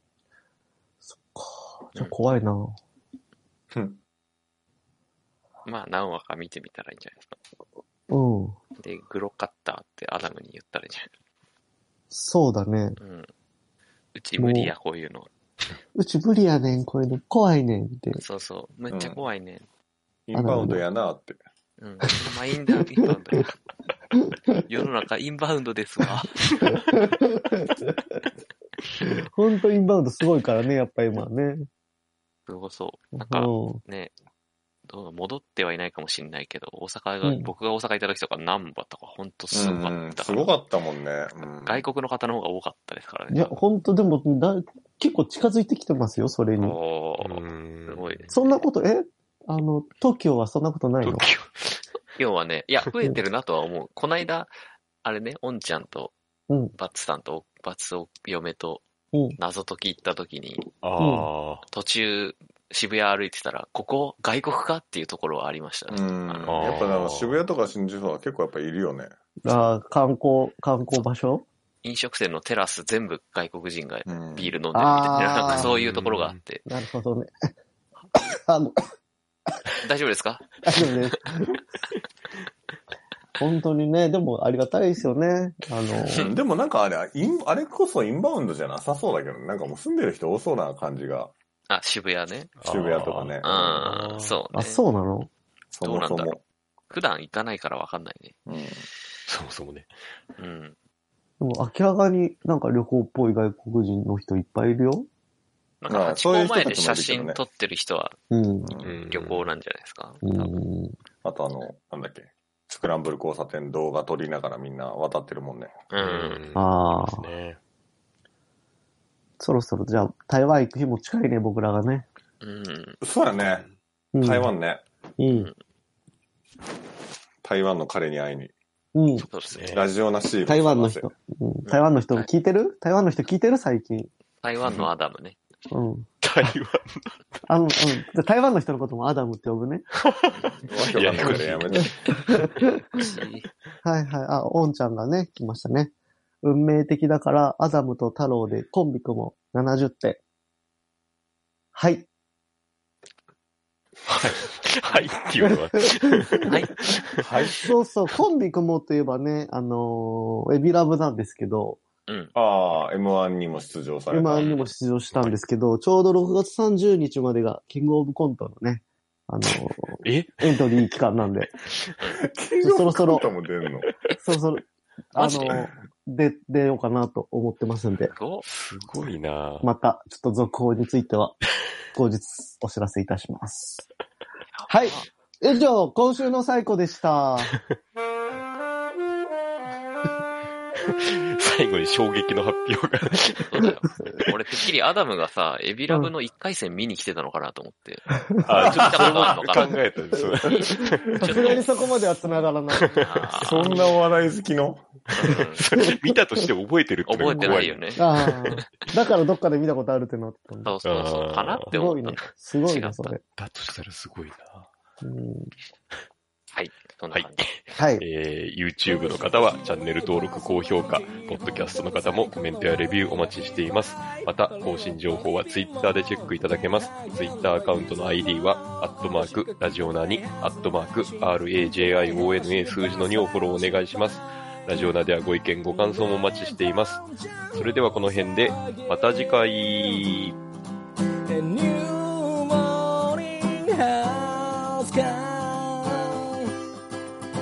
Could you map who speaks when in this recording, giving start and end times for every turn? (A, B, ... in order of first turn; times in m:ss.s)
0:01.0-0:02.8 A
0:05.6-0:07.4 B
0:08.1-0:08.6 A
0:08.8-0:11.1 B
0:12.1-0:13.0 A
0:13.0-0:13.3 B
0:14.1-0:15.3 B
0:14.4-0:14.7 A
0:15.9-0:18.2 A
0:18.2-0:19.7 B
0:18.9-0:19.2 C
0:20.3-0:21.4 C
0:20.4-0:20.8 A
0:21.8-0:23.5 B
0:24.7-0:26.4 B
0:26.6-0:27.9 A
0:29.0-0:31.7 A
0:32.5-0:34.1 B
0:33.2-0:33.8 A
0:34.9-0:40.5 B
0:37.2-0:37.5 A
0:39.5-0:41.8 C
0:41.6-0:43.6 B
0:43.3-0:46.8 A
0:46.6-0:48.6 B
0:47.2-0:48.3 D
0:48.3-0:51.3 A
0:51.0-0:51.8 D
0:52.2-0:54.5 B
0:55.0-0:56.1 B
0:56.5-0:56.7 A
0:56.7-0:58.8 B
0:59.4-1:00.7 B
1:00.8-1:01.6 D
1:01.0-1:01.3 A
1:01.7-1:06.6 B
1:05.9-1:09.1 C
1:06.5-1:07.4 D
1:09.4-1:11.5 A
1:11.8-1:16.6 B
1:14.1-1:14.5 C
1:14.7-1:15.7 A
1:15.5-1:16.4 D
1:16.7-1:17.3 A
1:18.5-1:18.8 A
1:19.8-1:20.5 B
1:20.6-1:21.6 A
1:23.4-1:26.3 A
1:26.2-1:31.3 C
1:31.7-1:32.5 B
1:32.6-1:34.4 D
1:32.7-1:33.8 C
1:33.4-1:34.8 B
1:34.5-1:35.3 A
1:35.7-1:38.3 B
1:35.8-1:36.4 C
1:38.5-1:38.8 C
1:39.3-1:39.9 D
1:40.4-1:40.8 B
1:41.4-1:45.1 A
1:45.8-1:48.2 B
1:45.9-1:47.4 C
1:48.3-1:48.7 A
1:48.6-1:49.0 C
1:48.8-1:49.4 D
1:49.1-1:50.6 B
1:50.2-1:51.0 A
1:51.2-1:55.7 C
1:55.9-1:56.4 B
1:56.0-1:57.6 D
1:56.5-1:57.2 A
1:59.4-2:02.1 A
2:02.4-2:03.0 B
2:03.0-2:03.7 C
2:03.3-2:03.7 D
2:04.1-2:04.5 A
2:04.2-2:04.8 C
2:05.2-2:05.5 A
2:05.3-2:05.6 B
2:07.4-2:08.5 C
2:09.0-2:09.3 A
2:09.2-2:09.7 B
2:09.5-2:09.9 D
2:09.7-2:11.1 C
2:10.5-2:14.1 A
2:11.6-2:12.3 B
2:14.4-2:15.4 B
2:15.7-2:16.1 A
2:16.2-2:17.4 D
2:17.5-2:19.9 A
2:20.0-2:22.5 D
2:20.7-2:22.0 C
2:22.9-2:23.5 B
2:23.8-2:25.9 A
2:26.4-2:30.2 A
2:31.8-2:32.1 A
2:34.1-2:37.2 D
2:35.4-2:36.2 A
2:37.2-2:37.7 C
2:37.5-2:41.8 A
2:42.1-2:42.3 B
2:42.4-2:44.5 C
2:44.1-2:51.5 A
2:44.4-2:44.7 B
2:45.1-2:45.4 D
2:50.0-2:50.8 D
2:51.5-2:52.0 D
2:52.3-2:53.9 C
2:52.6-2:53.3 A
2:54.2-2:58.1 A
2:55.2-2:55.6 B
2:58.1-2:58.5 B
2:58.5-2:59.7 D
2:59.6-3:01.4 A
3:01.9-3:03.9 A
3:04.7-3:07.6 A
3:10.9-3:14.3 D
3:13.4-3:18.1 B
3:18.5-3:21.7 D
3:18.5-3:19.3 C
3:18.6-3:19.8 B
3:21.2-3:23.0 A
3:22.9-3:23.9 D
3:23.0-3:23.8 B
3:23.4-3:24.9 C
3:25.1-3:25.7 B
3:25.2-3:28.4 D
3:25.8-3:26.5 A
3:27.0-3:28.0 B
3:27.3-3:30.7 A
3:30.6-3:33.2 B
3:30.8-3:31.7 D
3:31.7-3:33.2 A
3:33.4-3:34.7 D
3:35.0-3:35.5 A
3:36.5-3:37.5 B
3:37.1-4:00.4 D
3:37.8-3:38.1 A
4:01.3-4:02.8 E
4:03.9-4:06.0 E